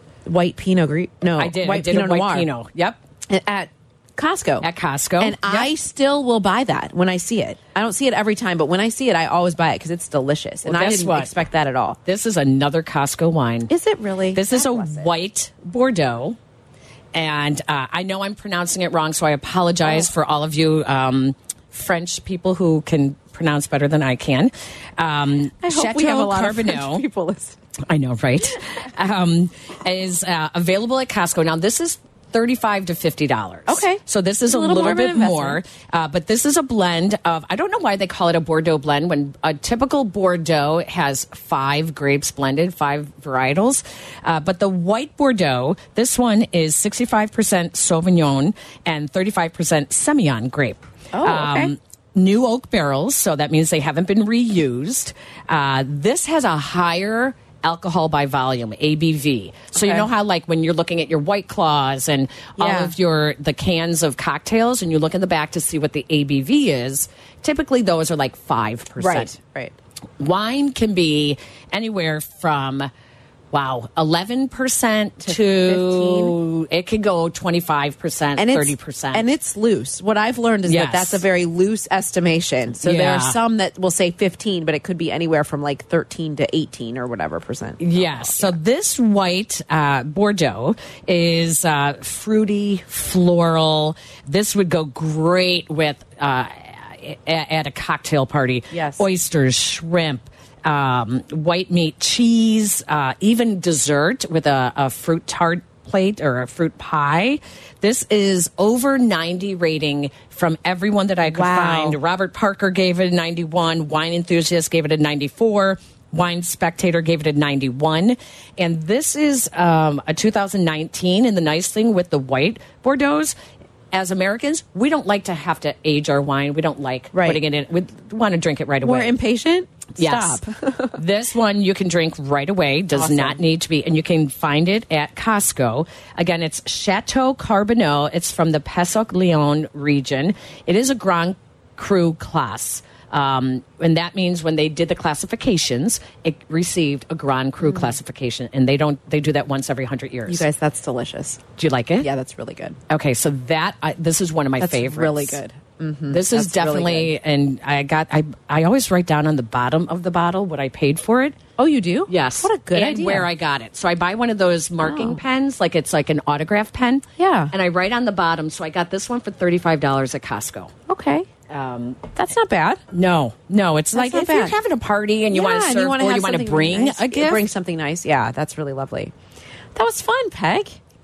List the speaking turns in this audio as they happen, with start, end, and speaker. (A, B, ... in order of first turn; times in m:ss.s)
0:00.2-0:02.5 A
0:01.4-0:03.0 B
0:03.3-0:04.7 A
0:04.6-0:05.7 B
0:05.2-0:12.0 A
0:10.6-0:11.3 B
0:12.0-0:13.7 B
0:13.7-0:15.1 A
0:14.3-0:16.4 B
0:17.1-0:27.0 B
0:25.6-0:27.6 A
0:27.9-1:09.3 B
0:33.7-0:35.6 A
0:51.1-0:51.7 A
0:59.7-1:00.1 A
1:02.6-1:02.9 A
1:09.0-1:09.7 A
1:10.2-1:12.9 B
1:13.5-1:19.3 B
1:15.2-1:16.4 A
1:18.4-1:28.6 A
1:20.6-1:21.2 B
1:22.8-1:23.4 B
1:27.8-2:03.3 B
1:38.7-1:39.0 A
1:51.2-1:52.0 A
2:03.9-2:09.1 B
2:07.1-2:07.4 A
2:08.8-2:11.0 A
2:10.0-2:10.4 B
2:10.9-2:30.4 B
2:12.9-2:13.4 A
2:27.6-2:28.0 A
2:30.3-2:32.8 A
2:31.6-2:32.1 B
2:32.9-2:35.4 B
2:34.6-2:37.1 A
2:36.1-2:41.4 B
2:41.6-2:43.3 A
2:42.1-2:50.7 B
2:44.8-2:45.2 A
2:47.2-2:47.5 A
2:50.9-2:51.3 A
2:51.5-2:52.0 B
2:52.2-2:52.8 A
2:52.9-2:57.4 B
2:53.9-2:54.6 A
2:55.3-2:59.1 A
2:59.7-3:00.8 A